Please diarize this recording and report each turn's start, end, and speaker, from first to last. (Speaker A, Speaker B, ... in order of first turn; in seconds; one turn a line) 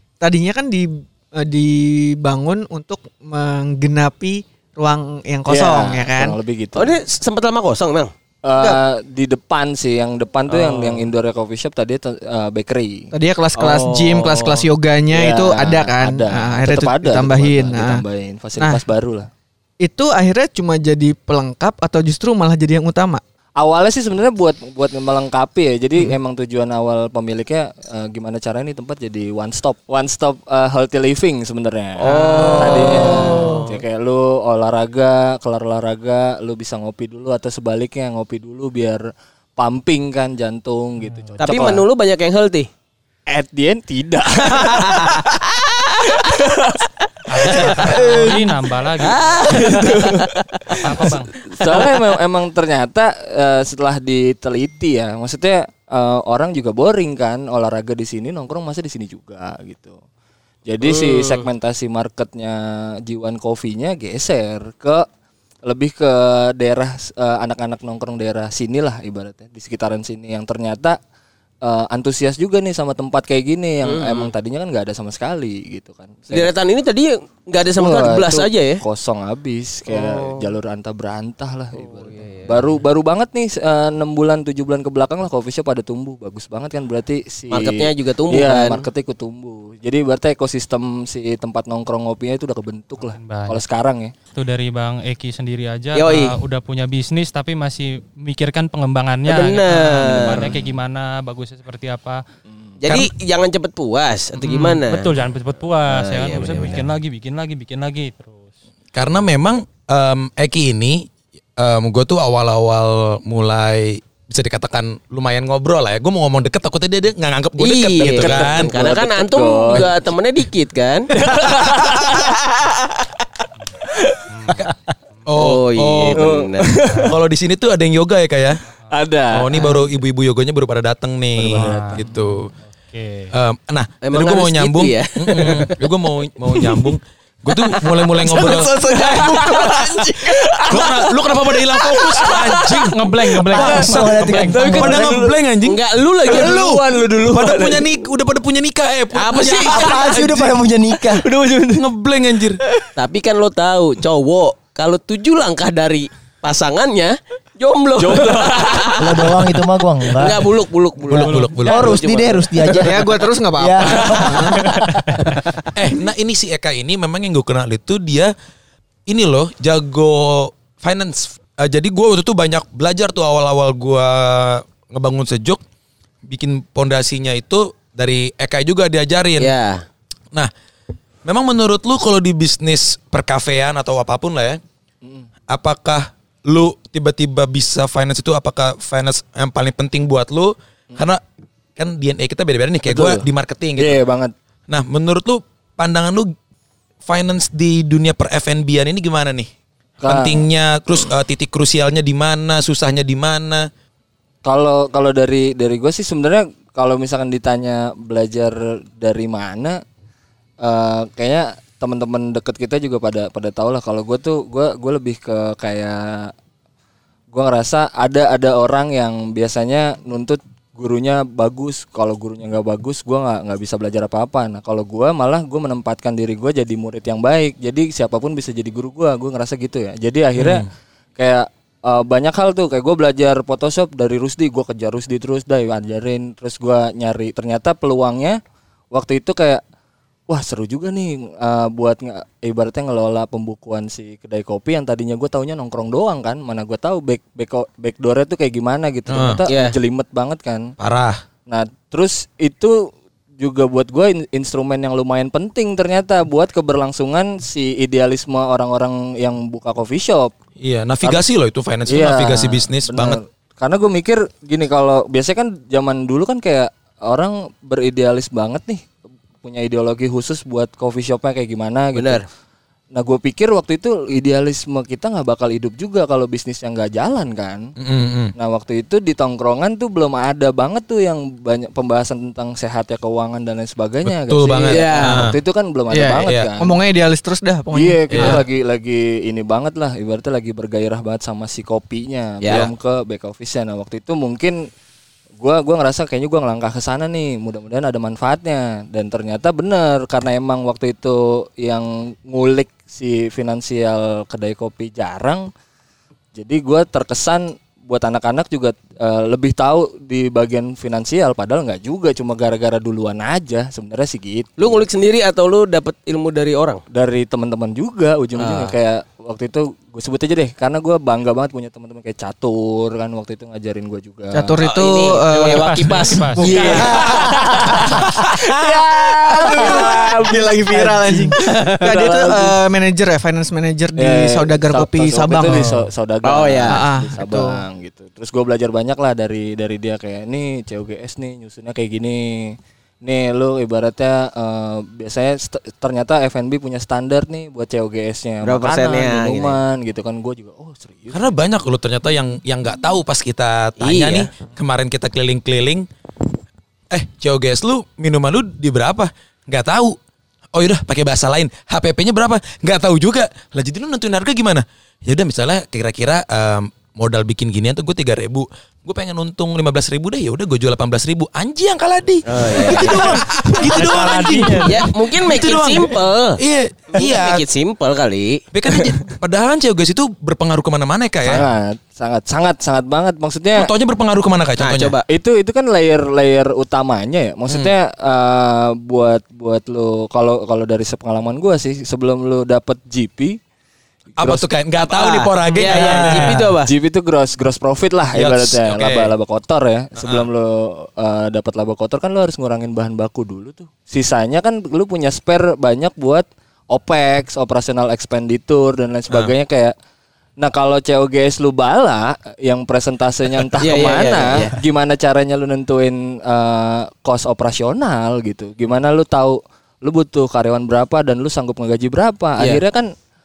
Speaker A: 0.2-6.4
Speaker B: 5.5-7.0
Speaker C: 6.8-8.1
Speaker B: 8.4-13.1
Speaker A: 13.1-18.0
Speaker C: 13.5-14.7
Speaker B: 15.1-19.3
Speaker A: 18.6-18.8
Speaker A: 19.8-23.2
Speaker B: 23.6-39.0
Speaker C: 32.0-33.8
Speaker D: 32.3-32.7
Speaker E: 32.8-33.7
Speaker B: 39.6-41.8
Speaker C: 41.4-42.7
Speaker B: 43.3-45.4
Speaker C: 44.6-46.8
Speaker D: 47.3-49.5
Speaker B: 47.5-48.2
Speaker A: 47.9-48.6
Speaker C: 49.0-51.9
Speaker B: 49.2-50.8
Speaker D: 50.8-51.3
Speaker B: 51.4-60.0
Speaker B: 60.7-65.1
Speaker C: 60.8-61.5
Speaker B: 65.7-71.0
Speaker B: 71.6-76.5
Speaker C: 73.8-74.3
Speaker C: 76.3-78.8
Speaker B: 77.8-94.1
Speaker C: 79.9-80.5
Speaker C: 81.8-82.5
Speaker C: 87.5-88.8
Speaker D: 93.1-93.6
Speaker D: 94.3-102.2
Speaker C: 96.0-96.4
Speaker C: 99.3-100.6
Speaker C: 102.8-105.1
Speaker D: 104.4-108.5
Speaker C: 105.9-106.9
Speaker F: 108.9-118.7
Speaker C: 117.6-123.0
Speaker B: 118.0-120.0
Speaker B: 121.2-122.2
Speaker D: 124.3-124.7
Speaker F: 125.3-126.3
Speaker C: 125.4-126.7
Speaker B: 126.1-127.1
Speaker D: 126.8-127.1
Speaker F: 127.1-128.7
Speaker B: 128.9-129.8
Speaker F: 129.3-132.5
Speaker B: 131.3-132.1
Speaker D: 131.6-132.2
Speaker D: 132.7-133.3
Speaker F: 133.3-138.7
Speaker C: 134.0-135.8
Speaker C: 136.5-136.9
Speaker C: 137.6-141.1
Speaker A: 138.3-140.3
Speaker B: 138.5-139.8
Speaker F: 140.7-150.5
Speaker C: 141.9-142.8
Speaker D: 142.8-145.1
Speaker E: 143.5-145.3
Speaker C: 145.6-146.7
Speaker B: 146.3-147.9
Speaker C: 149.1-150.2
Speaker E: 149.7-151.2
Speaker B: 151.1-151.9
Speaker F: 151.8-152.6
Speaker C: 153.0-163.1
Speaker B: 158.0-159.0
Speaker E: 159.0-160.5
Speaker E: 161.1-165.7
Speaker F: 161.1-161.9
Speaker A: 162.8-164.6
Speaker C: 163.8-164.6
Speaker F: 165.8-168.3
Speaker F: 169.1-175.6
Speaker F: 176.3-179.5
Speaker C: 179.4-179.8
Speaker F: 181.2-184.6
Speaker F: 185.5-191.2
Speaker F: 191.8-194.0
Speaker B: 192.9-193.2
Speaker B: 193.8-194.3
Speaker F: 194.7-196.3
Speaker F: 197.1-199.5
Speaker B: 200.0-200.4
Speaker F: 200.1-203.7
Speaker B: 204.4-209.8
Speaker B: 210.6-216.3
Speaker B: 217.3-230.7
Speaker F: 230.4-230.7
Speaker B: 231.2-238.4
Speaker B: 238.9-239.6
Speaker B: 240.3-250.7
Speaker F: 249.1-249.4
Speaker C: 249.5-249.7
Speaker F: 250.8-251.2
Speaker B: 251.5-252.8
Speaker B: 253.4-260.3
Speaker F: 260.6-263.2
Speaker B: 261.9-268.8
Speaker B: 269.4-272.2
Speaker C: 271.9-272.2
Speaker B: 272.9-277.6
Speaker F: 277.8-278.3
Speaker B: 278.4-286.8
Speaker F: 284.1-285.3
Speaker C: 284.7-285.2
Speaker A: 285.9-288.4
Speaker F: 286.2-286.5
Speaker B: 287.7-294.6
Speaker F: 288.2-288.4
Speaker B: 295.4-305.5
Speaker B: 306.4-314.9
Speaker C: 314.6-316.8
Speaker B: 316.9-324.6
Speaker C: 318.4-318.7
Speaker A: 324.3-328.3
Speaker C: 324.6-329.9
Speaker D: 325.3-326.9
Speaker B: 326.6-330.9
Speaker A: 329.4-335.8
Speaker E: 330.8-331.3
Speaker C: 331.4-332.5
Speaker B: 334.0-351.3
Speaker C: 336.2-336.8
Speaker A: 336.7-337.6
Speaker C: 348.4-349.6
Speaker F: 351.1-355.9
Speaker C: 353.8-354.3
Speaker F: 356.9-360.0
Speaker F: 360.6-377.4
Speaker C: 372.3-373.2
Speaker E: 372.7-374.9
Speaker C: 374.6-376.4
Speaker C: 376.9-379.1
Speaker F: 378.5-381.5
Speaker B: 381.2-383.7
Speaker F: 383.6-385.0
Speaker C: 384.6-385.0
Speaker B: 385.1-393.4
Speaker B: 394.2-394.5
Speaker F: 394.2-396.5
Speaker C: 394.9-396.7
Speaker D: 395.5-395.8
Speaker B: 396.5-409.7
Speaker F: 398.1-399.1
Speaker B: 410.4-422.9
Speaker C: 413.6-414.6